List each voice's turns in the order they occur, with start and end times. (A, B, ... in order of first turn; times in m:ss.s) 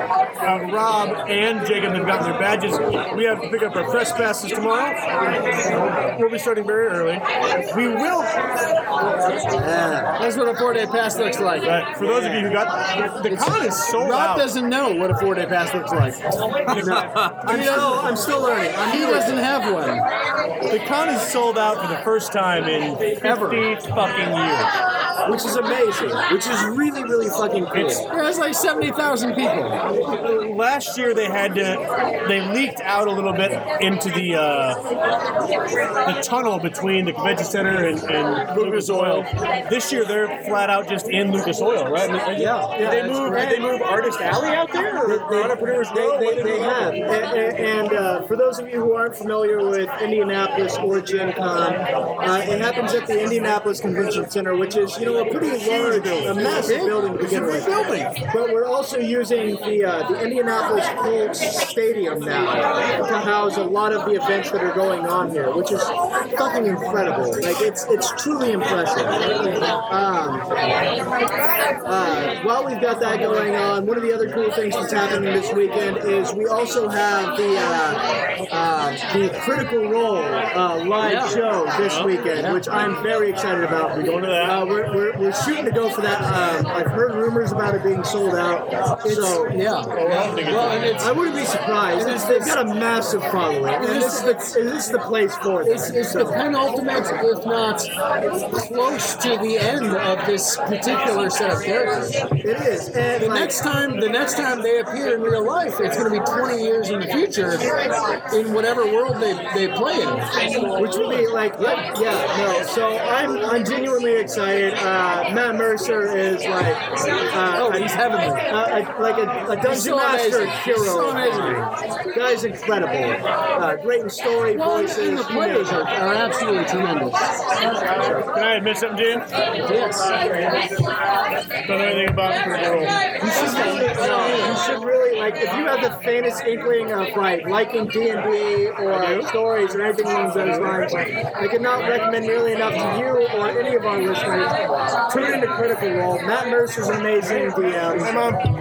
0:00.4-0:05.0 A
0:06.1-0:08.3 A
0:09.6-0:10.1 B
0:10.2-0:11.7 C
0:11.6-0:14.5 A
0:12.0-0:12.6 B
0:13.3-0:18.0 C
0:16.7-0:18.0 A
0:16.8-0:19.3 B
0:18.8-0:20.0 C
0:20.7-0:24.7 A
0:23.2-0:23.6 C
0:25.2-0:28.0 B
0:27.7-0:29.8 C
0:30.1-0:34.8 A
0:36.0-0:47.0 A
0:38.5-0:39.2 B
0:38.9-0:39.2 C
0:42.3-0:43.6 C
0:42.8-0:43.0 B
0:45.0-0:57.7 B
0:55.5-0:58.0 A
0:56.6-0:58.1 C
0:58.3-1:09.2 B
1:09.9-1:10.5 B
1:11.8-1:29.6 B
1:21.0-1:21.4 C
1:21.8-1:22.2 A
1:22.3-1:22.6 C
1:24.0-1:24.6 A
1:29.0-1:31.1 C
1:29.9-1:31.0 A
1:31.0-1:36.4 B
1:32.0-1:32.6 C
1:33.8-1:34.6 C
1:35.6-1:37.9 C
1:38.6-1:42.2 C
1:42.4-1:43.5 B
1:43.2-1:47.7 C
1:48.3-1:50.3 C
1:50.8-1:57.9 B
1:57.5-1:58.5 C
1:58.5-2:05.8 B
1:59.6-2:01.7 C
2:04.5-2:07.3 C
2:08.3-2:09.3 A
2:09.6-2:10.1 C
2:11.6-2:13.0 A
2:13.2-2:28.1 B
2:13.2-2:14.5 C
2:18.9-2:19.3 A
2:27.9-2:28.4 A